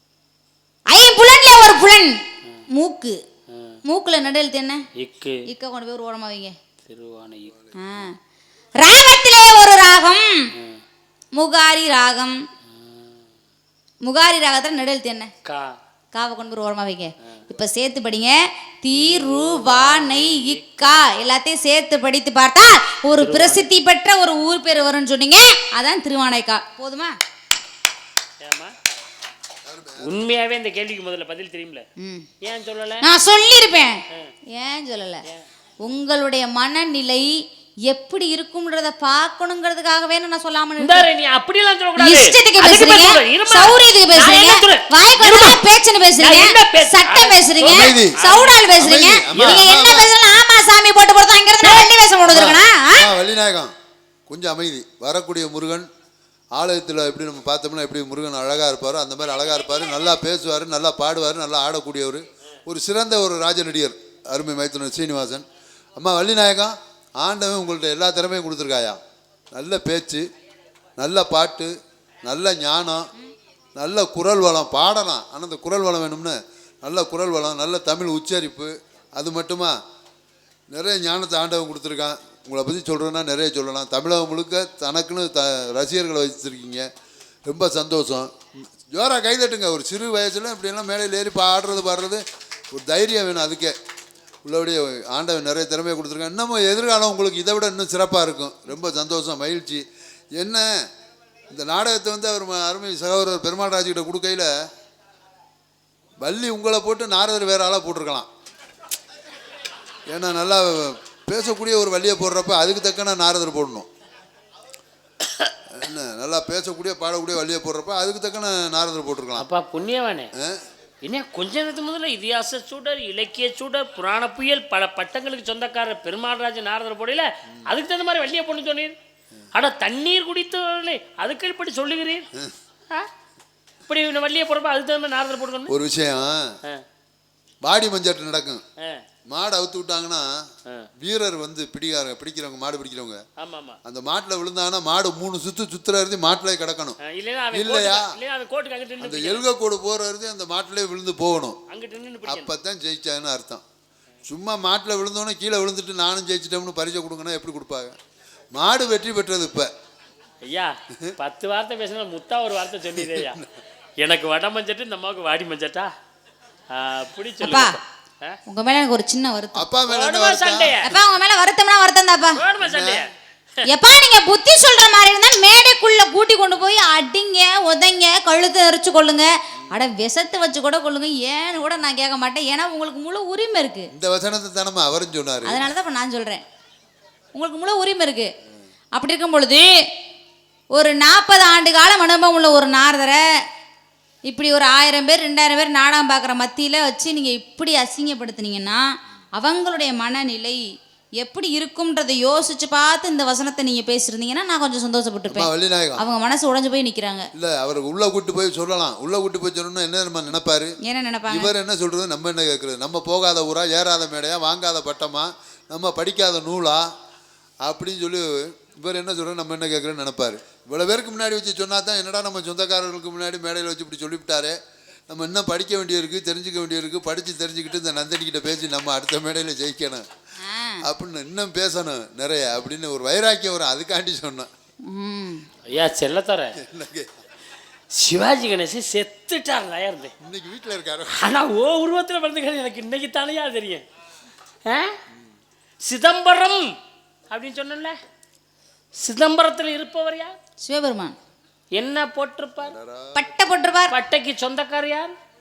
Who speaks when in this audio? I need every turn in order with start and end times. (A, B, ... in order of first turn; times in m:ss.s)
0:00.9-0:02.1 A
0:02.7-0:03.2 A
0:03.5-0:03.8 B
0:03.9-0:04.8 A
0:05.0-0:05.4 B
0:05.5-0:06.6 A
0:06.9-0:07.6 B
0:07.8-0:08.2 A
0:08.8-0:10.4 A
0:10.6-0:10.8 B
0:11.4-0:12.4 A
0:12.7-0:13.2 B
0:14.0-0:15.3 A
0:15.4-0:15.8 B
0:16.1-0:27.1 A
0:18.9-0:21.0 B
0:23.2-0:23.7 B
0:28.4-0:28.7 B
0:29.6-0:30.2 C
0:30.0-0:31.8 B
0:32.0-0:32.3 A
0:32.4-0:33.0 B
0:33.0-0:34.0 A
0:34.5-0:35.2 A
0:35.8-0:37.3 A
0:37.9-0:41.1 A
0:40.8-0:45.6 B
0:42.0-0:53.1 A
0:46.2-0:48.6 B
0:47.6-0:48.2 C
0:48.8-0:50.1 C
0:49.4-0:49.6 B
0:52.2-0:53.7 C
0:54.3-0:55.9 C
0:56.5-1:05.4 C
1:06.0-1:09.0 C
1:09.5-1:10.2 C
1:11.0-1:13.1 C
1:13.8-1:19.7 C
1:20.7-1:26.9 C
1:27.5-1:28.3 C
1:28.9-1:33.8 C
1:34.4-1:39.8 C
1:40.4-1:40.7 C
1:41.5-1:44.5 C
1:46.2-1:48.3 C
1:50.1-1:53.9 C
1:55.7-1:59.5 C
1:59.4-2:00.3 B
2:00.4-2:00.6 C
2:01.0-2:09.0 B
2:09.5-2:12.2 B
2:13.9-2:15.7 B
2:15.7-2:16.5 C
2:17.6-2:18.6 C
2:19.3-2:20.4 C
2:21.0-2:23.2 C
2:23.4-2:23.8 B
2:23.8-2:27.0 C
2:27.0-2:29.4 B
2:27.5-2:28.2 C
2:29.0-2:31.6 C
2:31.7-2:32.5 B
2:32.2-2:33.6 C
2:34.3-2:38.0 C
2:38.5-2:39.7 C
2:40.4-2:43.4 B
2:42.9-2:43.5 C
2:44.0-2:45.9 B
2:46.7-2:48.4 B
2:47.4-2:47.8 A
2:48.5-2:49.6 A
2:49.6-2:50.8 C
2:49.9-2:50.9 B
2:50.8-2:52.4 A
2:52.4-2:53.1 B
2:52.6-2:53.0 C
2:53.7-3:03.9 A
3:03.9-3:05.6 C
3:05.5-3:06.4 A
3:07.3-3:08.3 A
3:08.9-3:09.7 A
3:10.7-3:13.2 A
3:14.3-3:18.8 A
3:19.4-3:20.6 A
3:21.2-3:27.3 A
3:25.3-3:26.0 C
3:27.4-3:30.8 C
3:30.8-3:31.5 A
3:31.3-3:36.9 C
3:37.6-3:44.6 C
3:45.1-3:50.1 C
3:50.4-3:50.8 A
3:50.8-3:54.5 C
3:54.9-3:55.4 A
3:55.7-3:56.6 B
3:56.6-3:57.1 C
3:57.9-4:00.1 B
4:00.2-4:01.1 C
4:01.1-4:03.8 B
4:04.7-4:04.9 B
4:05.8-4:06.7 B
4:07.3-4:08.0 B
4:09.0-4:10.3 B
4:10.6-4:11.2 A
4:11.7-4:12.7 B
4:12.6-4:13.3 C
4:13.2-4:13.9 A
4:13.9-4:15.1 B